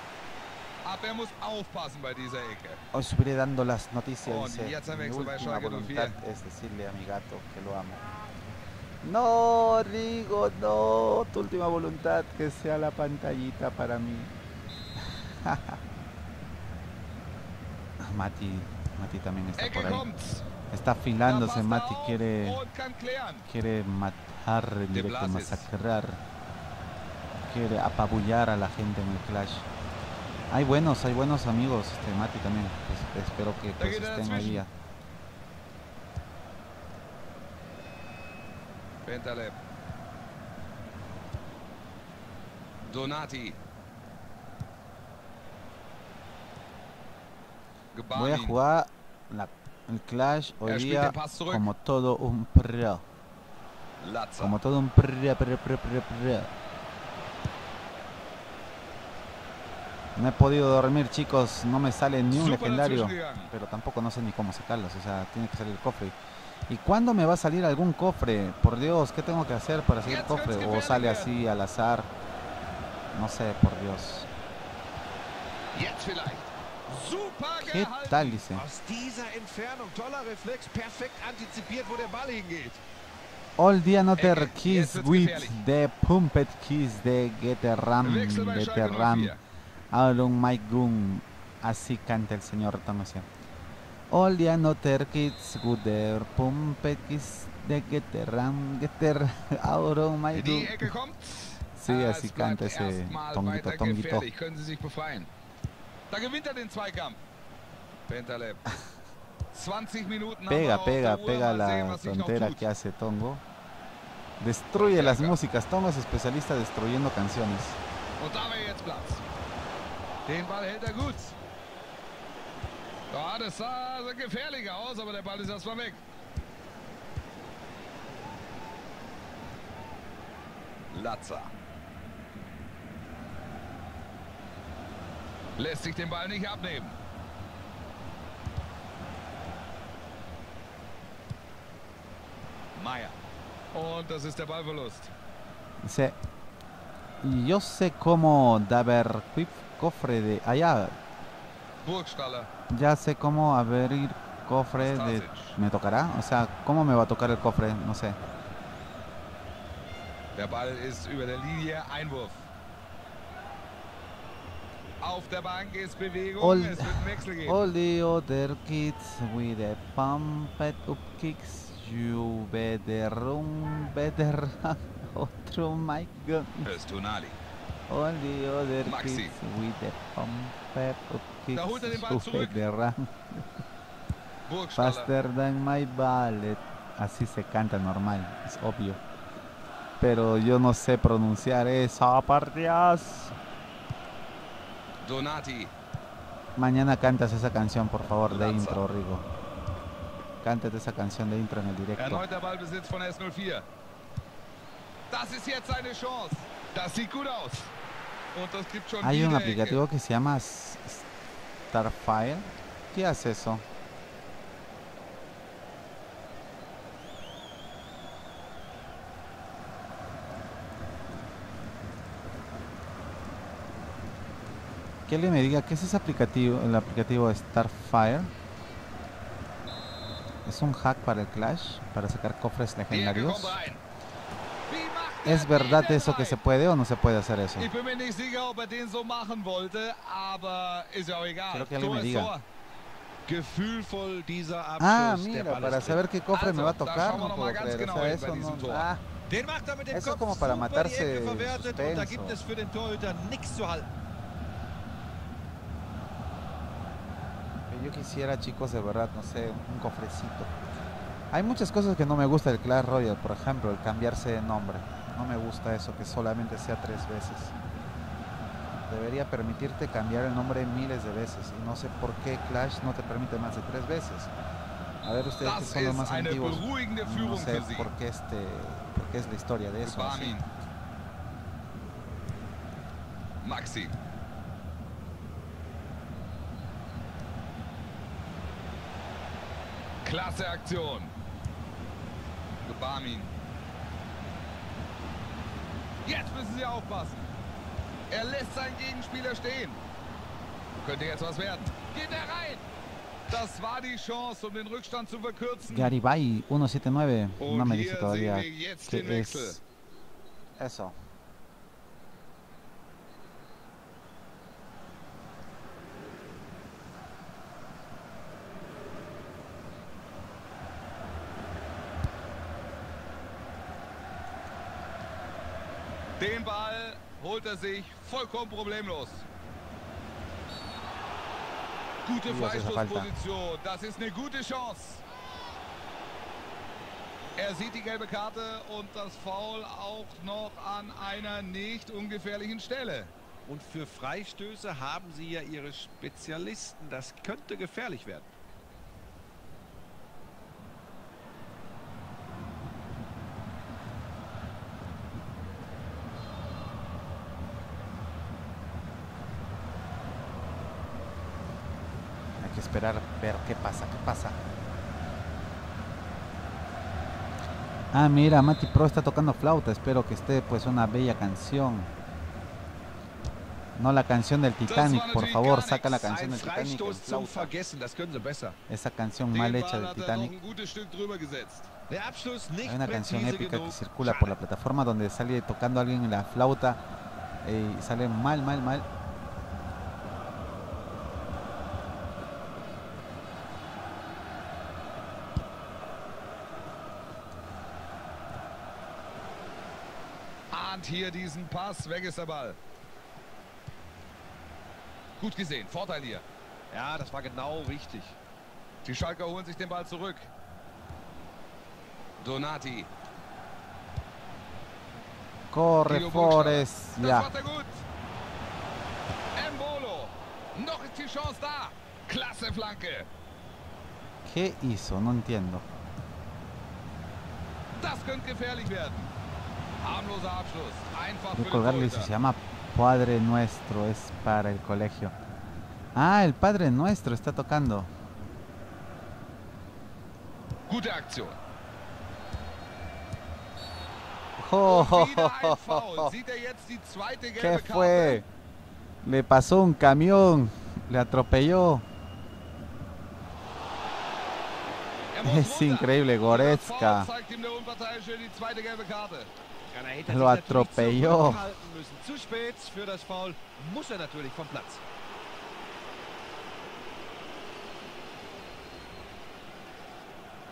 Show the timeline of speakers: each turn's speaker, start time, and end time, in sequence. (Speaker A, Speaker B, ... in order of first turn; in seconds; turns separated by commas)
Speaker A: 0.8-2.8, Speaker B: 2.9-8.1, Speaker A: 4.2-6.2, Speaker B: 9.0-14.3, Speaker B: 15.0-15.8, Speaker B: 18.0-20.1, Speaker A: 19.6-20.5, Speaker B: 20.7-22.6, Speaker A: 21.2-23.5, Speaker B: 23.4-26.2, Speaker A: 24.9-25.7, Speaker B: 27.4-29.7, Speaker B: 30.5-34.7, Speaker A: 33.8-34.6, Speaker A: 39.0-39.5, Speaker A: 42.8-43.6, Speaker A: 47.9-48.6, Speaker B: 48.1-53.0, Speaker A: 50.6-51.7, Speaker A: 54.0-54.6, Speaker B: 54.4-56.5, Speaker B: 60.1-66.1, Speaker A: 62.3-63.5, Speaker B: 66.7-72.1, Speaker A: 70.0-71.4, Speaker B: 73.1-74.3, Speaker A: 75.7-78.4, Speaker B: 77.6-78.6, Speaker C: 78.5-82.8, Speaker B: 83.6-89.3, Speaker A: 84.2-85.6, Speaker A: 88.0-89.4, Speaker B: 89.9-93.3, Speaker B: 94.1-100.9, Speaker A: 100.3-105.3, Speaker B: 101.8-104.3, Speaker A: 106.1-107.2, Speaker A: 108.1-108.6, Speaker A: 109.5-112.7, Speaker B: 110.5-113.4, Speaker B: 114.4-117.8, Speaker A: 114.7-115.4, Speaker A: 118.2-119.2, Speaker A: 120.3-121.3, Speaker A: 123.1-126.0, Speaker A: 130.9-131.5, Speaker A: 135.6-136.9, Speaker A: 142.8-143.2, Speaker A: 143.7-145.1, Speaker B: 145.8-146.2, Speaker B: 147.2-150.9, Speaker A: 151.8-152.5, Speaker B: 152.7-158.2, Speaker A: 154.8-155.6, Speaker A: 160.3-162.5, Speaker A: 165.0-167.6, Speaker B: 166.4-176.7, Speaker A: 176.6-177.4, Speaker B: 177.9-183.4, Speaker A: 178.8-179.4, Speaker A: 181.5-182.6, Speaker A: 184.4-185.1, Speaker B: 184.8-189.0, Speaker B: 190.0-193.3, Speaker A: 195.0-195.7, Speaker B: 196.6-199.2, Speaker A: 198.3-198.8, Speaker B: 200.4-202.2, Speaker A: 201.9-203.7, Speaker A: 205.1-207.7, Speaker A: 208.3-209.8, Speaker B: 209.0-211.0, Speaker B: 211.7-213.6, Speaker B: 225.1-228.3, Speaker B: 230.4-233.6, Speaker A: 232.9-233.8, Speaker A: 234.7-236.4, Speaker B: 235.2-237.7, Speaker A: 237.6-242.4, Speaker B: 241.5-242.3, Speaker C: 243.3-246.0, Speaker B: 244.8-249.0, Speaker A: 246.3-248.9, Speaker C: 249.3-253.9, Speaker B: 249.9-252.4, Speaker B: 257.7-260.5, Speaker B: 261.3-267.5, Speaker B: 268.9-274.3, Speaker B: 275.0-280.4, Speaker A: 275.4-277.9, Speaker A: 279.8-280.5, Speaker A: 283.4-283.9, Speaker A: 290.0-291.1, Speaker A: 292.6-293.3, Speaker A: 296.0-297.2, Speaker A: 298.1-299.8, Speaker A: 300.8-302.6, Speaker A: 303.3-305.9, Speaker B: 305.7-309.6, Speaker A: 307.4-309.6, Speaker B: 310.6-310.9, Speaker A: 326.2-329.2, Speaker A: 332.0-335.0, Speaker B: 332.2-333.1, Speaker A: 337.4-343.1, Speaker C: 343.4-348.3, Speaker B: 362.4-364.4, Speaker B: 367.9-371.9, Speaker B: 373.8-377.5, Speaker A: 374.6-376.1, Speaker C: 376.0-378.6, Speaker B: 378.7-380.3, Speaker A: 379.3-381.7, Speaker C: 381.9-384.4, Speaker B: 382.6-386.8, Speaker B: 387.4-388.9, Speaker A: 400.5-402.6, Speaker A: 405.2-406.2, Speaker C: 406.7-408.2, Speaker A: 408.8-410.3, Speaker A: 412.2-412.9, Speaker B: 415.5-417.3, Speaker A: 415.9-417.8, Speaker A: 419.4-423.1, Speaker B: 424.2-425.6, Speaker A: 427.8-429.1, Speaker A: 429.8-432.1, Speaker B: 431.3-435.1, Speaker B: 435.9-437.9, Speaker A: 440.7-441.4, Speaker B: 444.4-446.1, Speaker A: 444.6-448.2, Speaker B: 447.4-448.2, Speaker B: 449.0-451.8, Speaker A: 455.1-459.3, Speaker B: 455.2-457.1, Speaker C: 459.7-464.8, Speaker B: 460.1-461.4